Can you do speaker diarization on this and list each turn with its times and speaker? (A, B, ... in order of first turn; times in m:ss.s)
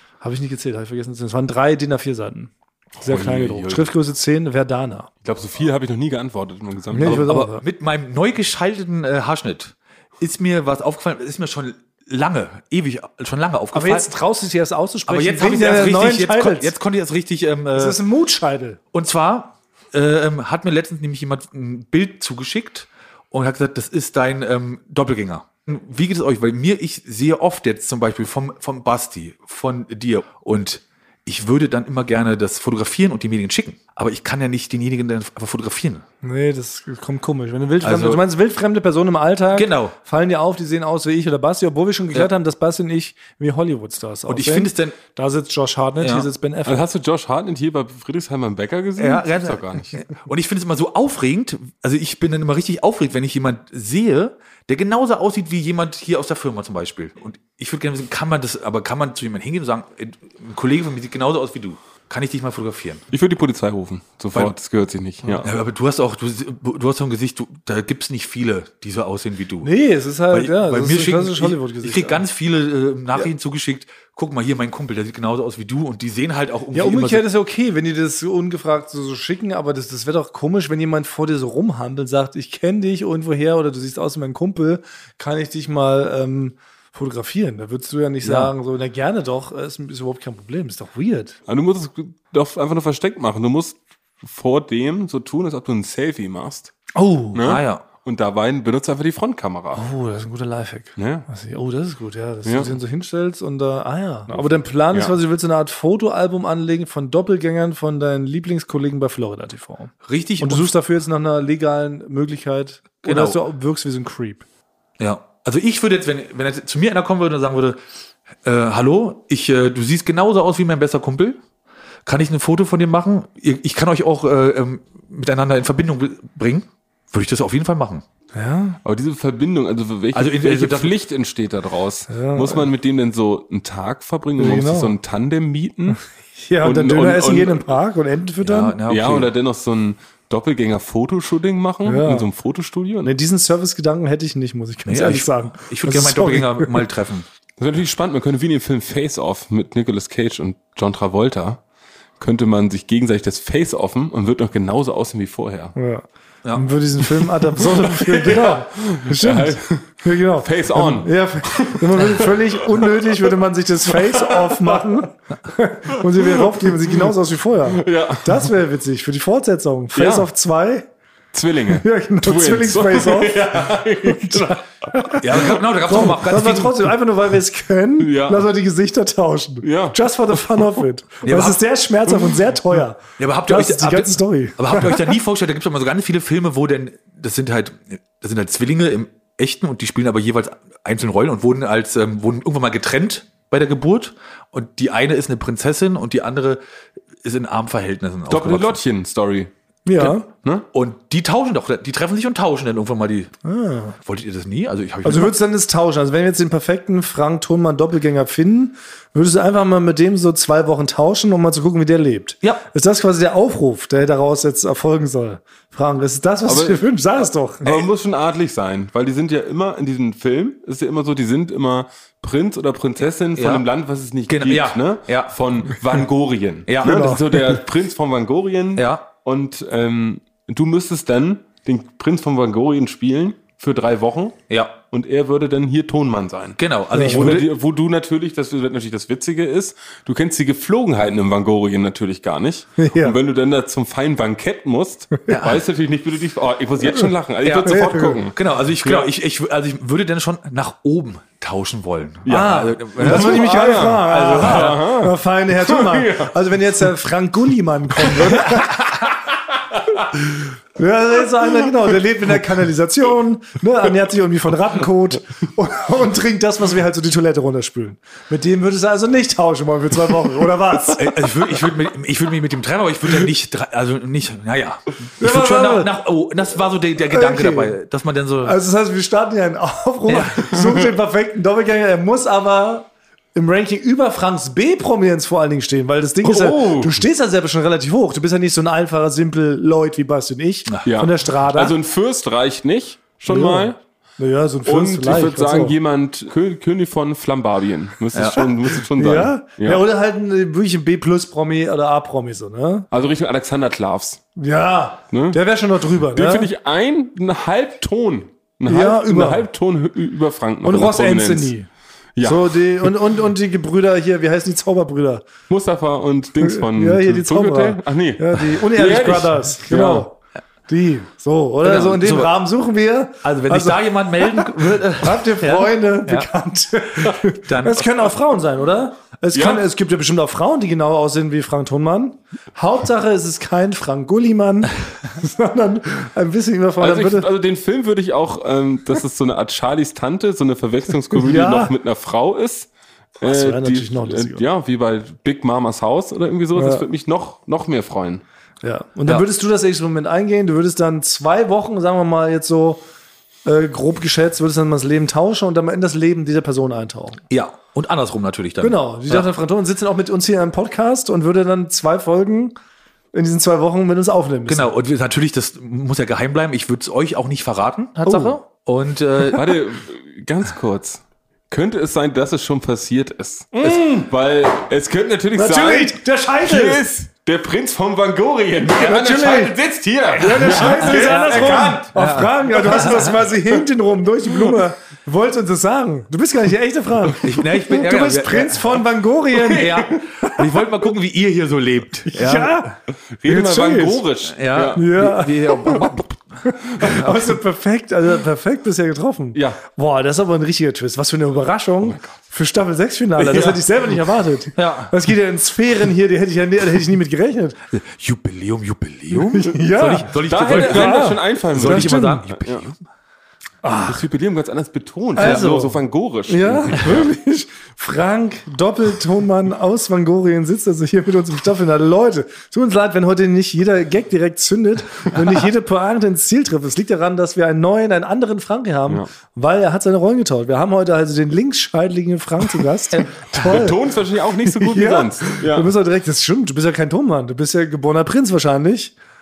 0:00.2-0:05.1 A
0:03.0-0:03.9 B
0:05.2-0:07.3 B
0:06.9-0:07.6 A
0:07.0-0:14.1 C
0:13.7-0:16.7 A
0:15.1-0:18.0 C
0:17.8-0:18.8 A
0:18.9-0:36.0 C
0:36.2-0:46.8 A
0:37.8-0:38.2 C
0:39.5-0:40.0 C
0:44.3-0:45.0 C
0:46.0-0:46.3 C
0:46.7-0:50.0 B
0:49.0-1:03.0 C
1:03.1-1:05.4 B
1:05.2-1:05.5 A
1:05.4-1:09.7 C
1:09.6-1:12.2 A
1:10.3-1:17.2 C
1:16.7-1:31.4 A
1:28.2-1:28.5 C
1:31.5-1:36.7 B
1:37.0-1:37.4 A
1:37.3-1:39.8 B
1:37.4-1:37.8 C
1:39.8-1:54.4 A
1:41.0-1:41.3 B
1:42.4-1:42.7 B
1:44.3-1:45.2 B
1:50.0-1:50.7 C
1:53.0-1:53.4 C
1:55.0-1:57.8 C
1:58.4-2:01.4 C
2:02.1-2:08.0 C
2:08.3-2:08.8 A
2:08.8-2:16.0 B
2:10.1-2:10.9 C
2:12.1-2:12.7 A
2:14.4-2:15.0 A
2:15.9-2:18.8 A
2:16.6-2:17.7 B
2:18.4-2:19.3 C
2:18.9-2:23.1 B
2:21.8-2:22.3 A
2:23.0-2:26.8 A
2:24.9-2:27.3 C
2:27.6-2:31.6 B
2:32.2-2:35.7 B
2:35.8-2:50.9 A
2:37.6-2:43.4 B
2:43.9-2:44.8 B
2:45.9-2:47.0 B
2:47.7-2:48.5 B
2:50.0-2:50.3 B
2:51.3-2:54.6 B
2:51.8-3:05.1 A
2:55.2-2:56.9 C
2:58.0-2:58.5 B
2:59.6-3:00.7 B
3:01.2-3:01.6 C
3:02.1-3:02.4 B
3:03.2-3:16.6 C
3:17.2-3:18.8 C
3:18.3-3:20.7 B
3:19.9-3:20.3 A
3:20.7-3:23.3 C
3:23.4-3:24.0 A
3:24.0-3:25.3 C
3:25.0-3:37.7 A
3:36.5-3:36.9 B
3:37.6-3:54.4 B
3:43.4-3:43.7 C
3:44.3-3:45.4 C
3:46.7-3:47.2 C
3:46.8-3:47.6 A
3:48.8-3:49.0 C
3:54.5-3:54.8 C
3:54.9-4:09.1 B
3:56.6-3:57.5 C
3:56.9-3:57.4 A
4:02.8-4:03.2 A
4:05.3-4:05.6 C
4:07.4-4:14.8 C
4:07.6-4:08.2 A
4:12.3-4:16.3 B
4:12.3-4:19.0 A
4:18.1-4:18.4 B
4:20.8-4:31.2 A
4:31.0-4:38.6 C
4:35.2-4:35.9 A
4:37.1-4:37.7 A
4:38.4-4:51.8 A
4:40.1-4:40.4 C
4:46.2-4:47.0 B
4:50.8-4:53.8 B
4:53.3-4:55.8 A
4:54.6-4:59.8 B
4:58.1-4:58.4 C
4:59.0-5:02.9 A
5:02.9-5:04.2 B
5:04.4-5:06.5 A
5:05.1-5:05.4 B
5:06.0-5:11.5 B
5:08.6-5:09.5 A
5:10.6-5:11.7 A
5:12.2-5:12.9 B
5:12.2-5:15.3 A
5:15.5-5:20.1 B
5:16.4-5:20.1 A
5:20.7-5:37.3 A
5:21.6-5:22.3 C
5:23.2-5:26.3 C
5:27.4-5:27.9 C
5:29.3-5:29.6 B
5:36.8-5:42.7 B
5:41.2-5:41.7 A
5:43.2-5:48.2 B
5:43.2-5:44.4 A
5:46.6-5:46.8 A
5:48.6-5:52.8 A
5:53.4-5:57.2 A
5:57.3-5:59.3 C
5:58.6-6:02.6 A
6:03.1-6:04.7 A
6:04.5-6:09.6 C
6:08.0-6:08.4 A
6:09.3-6:21.9 B
6:13.6-6:14.0 A
6:15.4-6:16.8 A
6:18.6-6:19.6 A
6:20.1-6:30.4 A
6:20.5-6:23.2 C
6:27.2-6:28.8 C
6:29.5-6:32.7 C
6:32.1-6:32.8 A
6:33.2-6:34.9 B
6:33.3-6:34.0 A
6:34.3-6:36.1 C
6:34.7-6:47.6 A
6:36.8-6:37.3 C
6:39.3-6:39.6 B
6:41.8-6:42.1 B
6:43.2-6:43.6 B
6:44.6-6:44.9 C
6:47.7-6:52.8 C
6:49.1-6:52.2 A
6:50.1-6:52.6 B
6:53.6-6:54.0 A
6:53.9-6:57.1 B
6:55.2-7:13.8 A
6:55.2-6:55.4 C
7:13.3-7:15.7 B
7:14.5-7:18.9 A